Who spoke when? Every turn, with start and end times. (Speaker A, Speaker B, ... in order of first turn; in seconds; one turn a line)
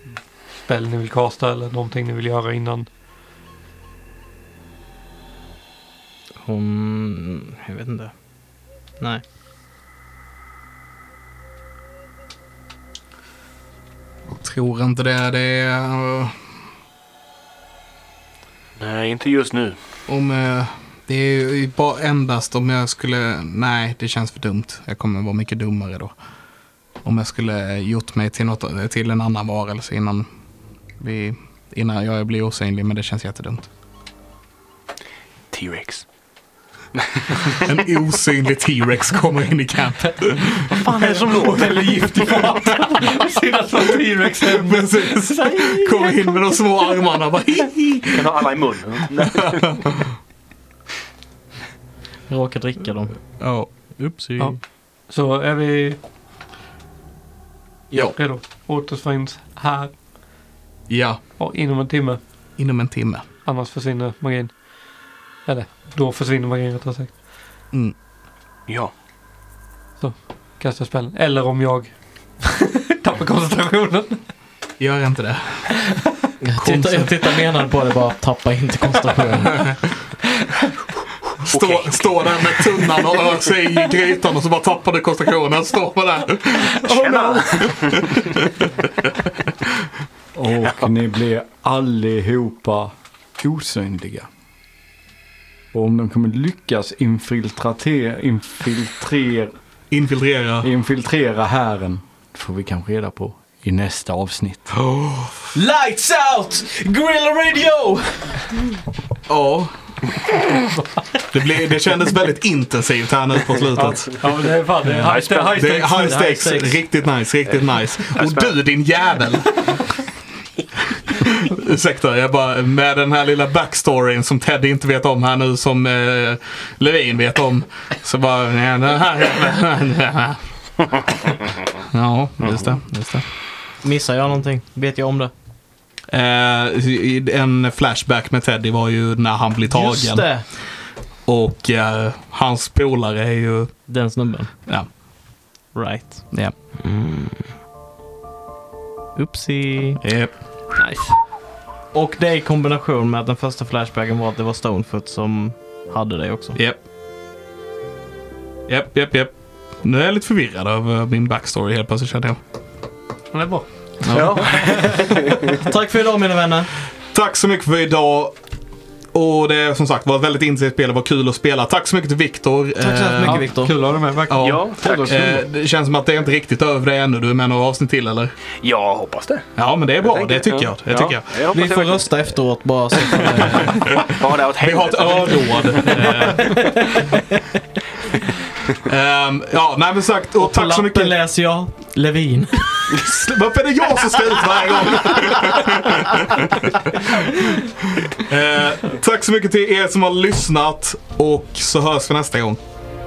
Speaker A: 0.6-2.9
Speaker B: 6.4-8.2
Speaker B: 9.0-9.2
Speaker C: 14.3-16.3
Speaker D: 18.8-19.8
Speaker C: 20.1-26.1
Speaker C: 27.0-30.3
Speaker C: 31.0-33.7
Speaker D: 35.5-36.0
Speaker D: 37.0-37.5
Speaker C: 37.6-40.7
Speaker D: 40.7-42.1
Speaker A: 40.8-45.2
Speaker C: 42.5-42.9
Speaker C: 44.4-48.3
Speaker B: 45.5-46.1
Speaker D: 48.1-49.8
Speaker B: 52.3-54.6
Speaker C: 53.4-53.8
Speaker A: 54.4-56.0
Speaker B: 57.9-58.1
Speaker A: 58.0-59.9
Speaker C: 60.9-61.2
Speaker A: 61.4-62.2
Speaker C: 62.6-63.3
Speaker A: 63.4-64.6
Speaker A: 65.4-67.2
Speaker D: 68.7-68.9
Speaker A: 70.0-74.2
Speaker C: 74.8-75.8
Speaker B: 76.4-79.7
Speaker C: 76.6-77.1
Speaker C: 81.4-88.7
Speaker D: 81.5-83.4
Speaker D: 87.0-88.2
Speaker E: 90.3-94.3
Speaker E: 95.7-99.5
Speaker C: 99.9-100.7
Speaker E: 100.6-104.8
Speaker B: 105.5-108.7
Speaker C: 109.3-110.1
Speaker C: 111.3-114.2
Speaker A: 113.8-116.2
Speaker D: 115.0-115.4
Speaker B: 115.1-116.8
Speaker C: 115.5-120.0
Speaker D: 118.2-118.5
Speaker C: 121.1-133.2
Speaker B: 133.8-135.3
Speaker C: 136.1-143.8
Speaker B: 139.7-140.5
Speaker B: 143.8-144.5
Speaker C: 144.7-145.0
Speaker B: 145.7-147.6
Speaker C: 146.3-146.6
Speaker B: 149.1-150.0
Speaker C: 150.0-150.4
Speaker A: 150.8-151.2
Speaker B: 151.9-156.6
Speaker C: 156.6-156.8
Speaker C: 158.7-162.4
Speaker A: 163.3-163.7
Speaker B: 164.0-166.7
Speaker D: 164.1-165.3
Speaker C: 167.1-168.4
Speaker C: 169.1-173.5
Speaker B: 172.8-173.8
Speaker A: 173.2-174.7
Speaker C: 174.3-178.3
Speaker D: 174.4-175.3
Speaker E: 174.9-175.2
Speaker D: 178.6-182.2
Speaker C: 179.6-181.4
Speaker B: 181.5-183.9
Speaker D: 183.1-186.8
Speaker C: 183.7-184.0
Speaker C: 184.6-186.5
Speaker B: 186.1-187.2
Speaker C: 188.8-191.2
Speaker B: 190.4-193.1
Speaker C: 192.9-197.5
Speaker C: 198.1-202.6